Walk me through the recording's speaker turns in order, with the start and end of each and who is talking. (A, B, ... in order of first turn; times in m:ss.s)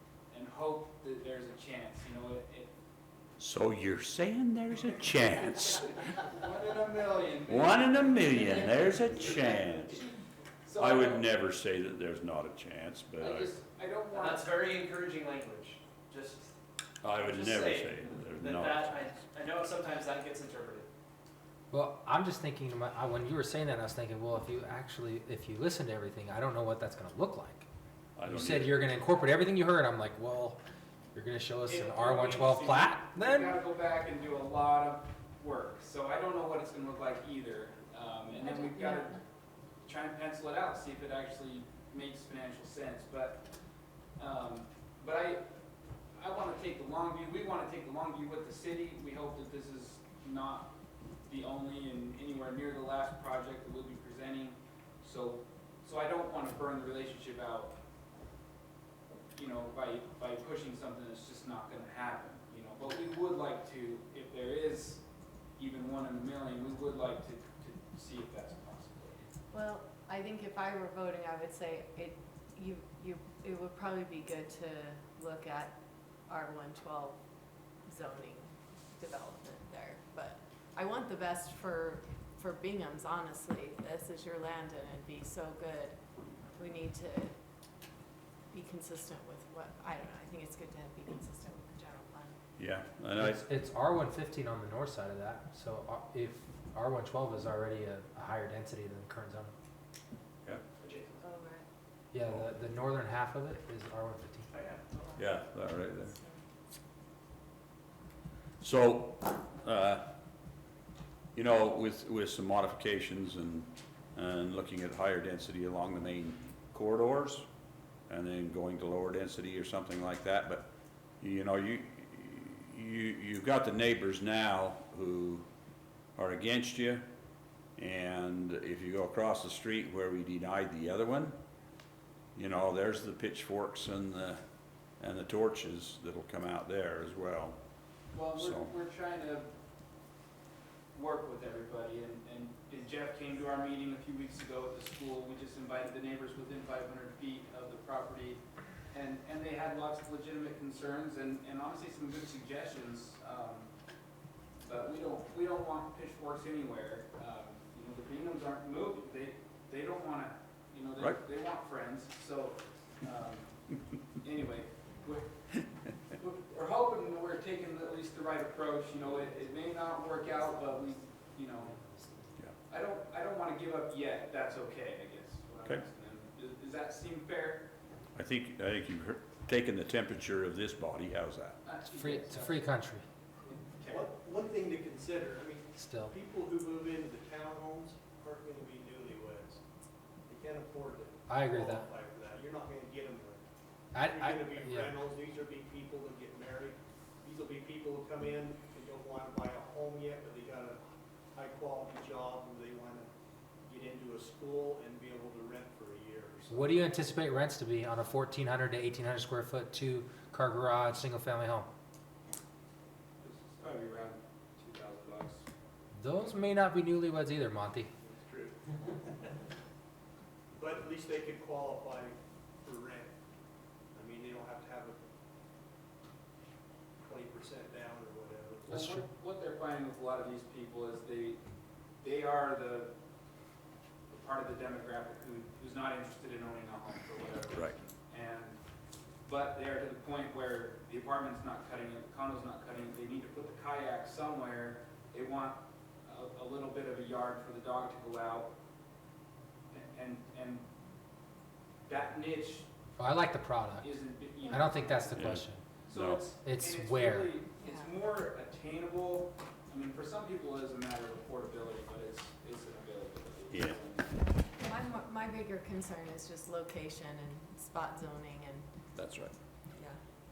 0:00.3-0:02.7 A
0:03.4-0:06.0 B
0:06.1-0:08.6 A
0:07.5-0:10.0 B
0:10.6-0:11.2 A
0:10.8-0:13.5 B
0:13.2-0:14.5 A
0:14.1-0:16.5 C
0:17.0-0:19.2 B
0:17.2-0:20.9 C
0:21.7-0:27.6 D
0:28.2-0:28.8 B
0:28.2-0:30.6 D
0:31.1-0:33.6 D
0:31.7-0:39.2 A
0:38.4-0:39.1 E
0:39.8-0:43.4 A
0:44.2-0:45.4 A
0:46.2-0:50.7 A
0:51.2-0:57.8 A
0:59.3-1:05.0 A
1:05.6-1:09.2 A
1:09.5-1:15.8 E
1:16.3-1:17.2 E
1:17.8-1:26.0 E
1:26.5-1:27.3 E
1:28.5-1:32.4 E
1:32.6-1:33.4 B
1:33.2-1:39.5 D
1:40.8-1:41.2 C
1:41.2-1:41.6 E
1:42.1-1:44.5 D
1:44.5-1:44.8 C
1:45.2-1:46.2 B
1:48.6-1:50.1 B
1:51.3-1:57.4 B
1:58.1-2:00.7 B
2:01.2-2:05.5 B
2:06.2-2:07.1 B
2:07.8-2:11.4 B
2:12.3-2:14.4 B
2:15.0-2:17.6 B
2:18.1-2:19.5 A
2:18.4-2:18.7 B
2:20.9-2:33.7 A
2:34.6-2:43.6 A
2:44.1-2:45.3 A
2:46.1-2:51.8 A
2:52.7-2:57.7 A
2:58.1-3:01.6 B
3:01.6-3:02.7 A
3:01.9-3:03.0 D
3:03.5-3:04.1 A
3:03.9-3:09.6 F
3:05.8-3:06.1 D
3:10.3-3:13.4 F
3:11.3-3:11.8 D
3:13.9-3:14.9 D
3:14.0-3:23.1 F
3:23.6-3:26.7 F
3:26.5-3:31.7 D
3:33.2-3:35.4 A
3:36.0-3:37.9 D
3:38.0-3:38.6 F
3:40.6-3:43.1 F
3:43.9-3:45.0 F
3:47.0-3:48.6 F
3:48.6-3:51.4 A
3:48.7-3:49.0 D
3:52.0-3:52.9 A
3:54.1-3:58.6 A
3:59.2-4:08.5 A
4:09.7-4:10.6 A
4:11.8-4:12.7 A
4:13.0-4:14.0 D
4:13.8-4:24.2 A
4:14.5-4:15.6 D
4:15.1-4:16.2 B
4:16.4-4:17.4 D
4:23.5-4:23.8 B
4:24.6-4:28.7 E
4:28.9-4:29.3 B